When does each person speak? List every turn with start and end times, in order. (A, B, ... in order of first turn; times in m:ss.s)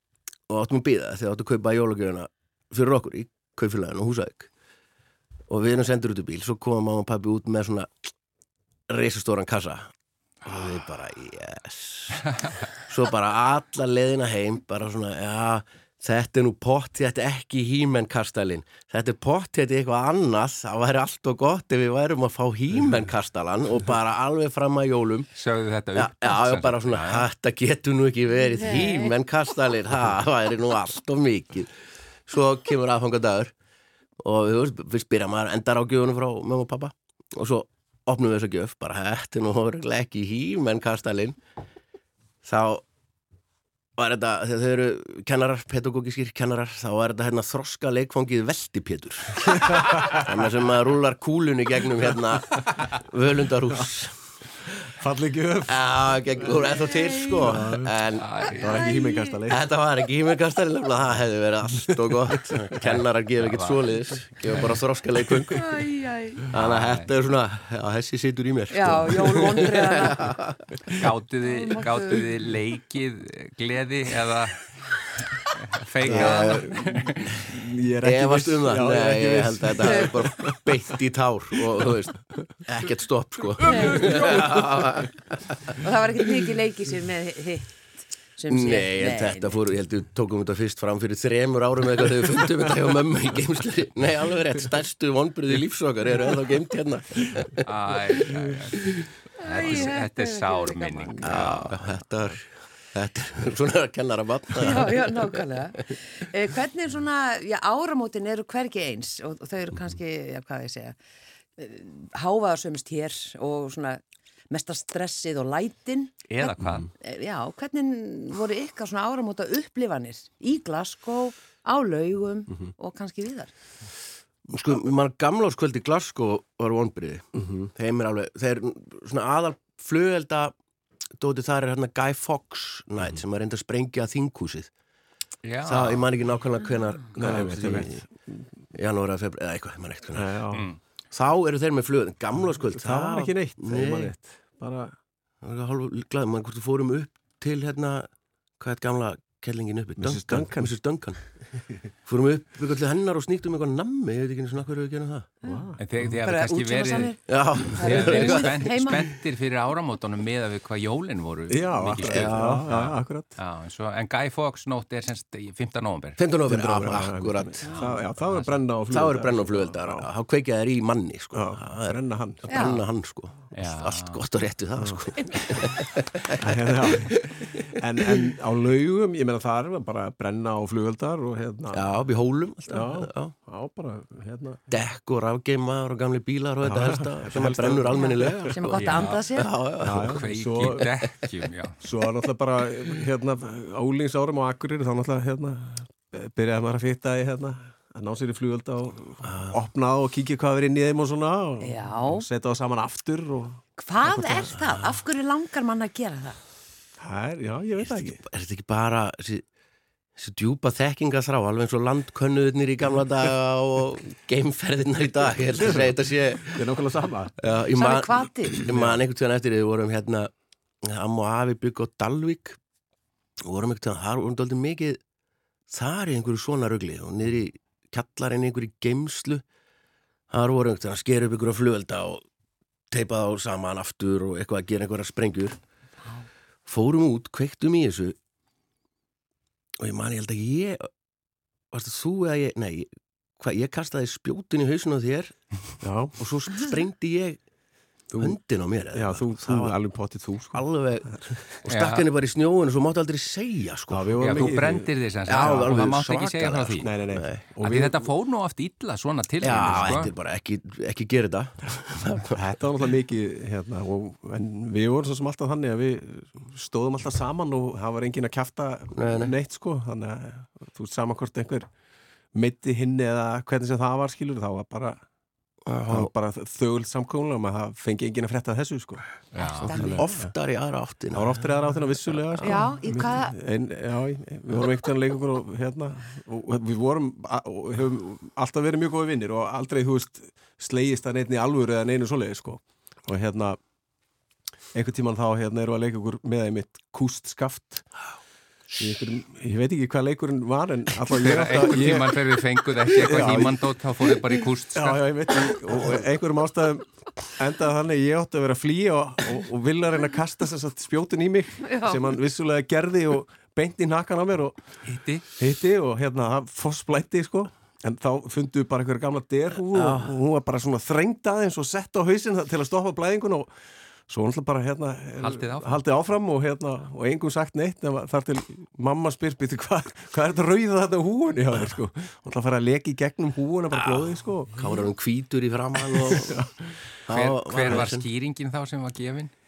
0:00.5-0:04.5 A
0:05.5-0:07.9 A
0:08.9-0:09.9 A
0:10.4-0:25.3 A
0:25.4-0:27.3 B
0:26.0-0:31.7 A
0:28.6-0:29.1 C
0:32.3-0:33.5 A
0:34.2-0:41.4 A
0:42.4-0:42.8 A
0:44.0-0:54.2 A
0:49.5-0:50.3 D
0:54.9-0:56.6 D
0:55.7-0:58.3 A
0:56.7-0:57.3 C
0:57.4-0:58.0 D
0:58.2-0:58.7 B
0:58.6-0:59.6 D
0:58.6-0:59.4 C
0:59.5-1:05.6 A
1:02.1-1:02.6 D
1:02.8-1:04.6 B
1:05.5-1:06.4 C
1:06.5-1:11.0 A
1:06.5-1:07.1 B
1:08.7-1:10.3 C
1:10.9-1:17.4 B
1:11.4-1:12.2 C
1:16.0-1:21.0 D
1:16.0-1:16.6 A
1:18.0-1:25.8 A
1:23.6-1:24.7 B
1:23.7-1:24.0 C
1:25.8-1:29.6 C
1:28.5-1:38.4 A
1:37.6-1:41.8 B
1:39.4-1:41.4 C
1:41.2-1:45.4 A
1:44.6-1:51.0 C
1:51.6-2:03.5 C
1:56.3-1:56.9 B
2:04.5-2:10.5 A
2:07.4-2:07.7 D
2:11.2-2:14.7 A
2:15.4-2:16.0 B
2:15.6-2:18.0 A
2:17.1-2:18.4 D
2:18.8-2:20.4 A
2:20.1-2:20.7 D
2:20.5-2:20.8 B
2:21.1-2:24.1 A
2:22.7-2:24.9 D
2:25.4-2:31.2 A
2:30.0-2:30.8 D
2:31.5-2:31.8 D
2:32.0-2:35.3 A
2:35.4-2:35.8 D
2:35.4-2:35.7 C
2:35.8-2:46.2 B
2:36.2-2:39.1 C
2:37.3-2:39.0 A
2:41.5-2:43.3 D
2:42.0-2:42.6 A
2:46.2-2:47.8 A
2:46.4-2:50.1 D
2:47.6-2:48.6 B
2:48.9-2:57.8 A
2:51.3-2:52.7 D
2:52.5-2:52.8 C
2:53.5-2:54.2 B
2:56.4-3:02.0 D
3:01.7-3:03.3 A
3:02.7-3:04.7 D
3:04.7-3:10.2 A
3:06.6-3:08.6 D
3:08.0-3:09.5 C
3:08.8-3:09.2 B
3:09.8-3:10.9 D
3:10.0-3:11.8 B
3:11.8-3:23.6 D
3:19.2-3:19.6 A
3:21.6-3:22.2 C
3:23.8-3:26.4 C
3:24.4-3:25.0 A
3:27.0-3:28.2 D
3:27.8-3:29.4 A
3:30.2-3:36.6 A
3:35.5-3:37.4 D
3:37.4-3:40.3 A
3:37.8-3:38.6 C
3:38.6-3:39.0 D
3:40.8-3:42.6 A
3:43.4-3:45.0 A
3:45.7-3:49.4 A
3:50.3-3:52.2 A
3:52.9-3:55.6 A
3:56.6-3:58.2 A
3:59.8-4:00.9 A
4:01.7-4:05.5 A
4:05.8-4:06.2 D
4:06.2-4:07.4 A
4:08.1-4:08.4 D
4:08.2-4:09.8 A
4:08.9-4:10.6 D
4:10.5-4:14.6 A
4:11.7-4:12.1 B
4:13.9-4:15.8 D
4:14.2-4:16.9 B
4:15.3-4:17.4 A
4:16.8-4:18.1 D
4:17.6-4:20.1 B
4:19.4-4:22.4 A
4:19.5-4:20.0 D
4:22.3-4:31.7 D
4:29.0-4:29.3 A
4:32.3-4:35.0 D
4:35.7-4:36.1 A
4:35.9-4:39.0 D
4:39.3-4:40.0 B
4:39.4-4:40.1 C
4:39.7-4:40.3 D
4:39.9-4:41.4 A
4:41.1-4:53.6 D
4:42.4-4:43.4 C
4:54.7-4:57.9 D
4:58.8-5:03.7 D
5:01.1-5:05.0 B
5:04.7-5:14.6 D
5:11.6-5:12.0 C
5:14.8-5:15.2 B
5:15.4-5:23.5 D
5:19.7-5:20.1 A
5:24.1-5:34.6 D
5:25.2-5:25.8 B
5:33.7-5:36.4 A
5:35.8-5:36.7 D
5:37.0-5:38.0 A
5:37.1-5:39.3 B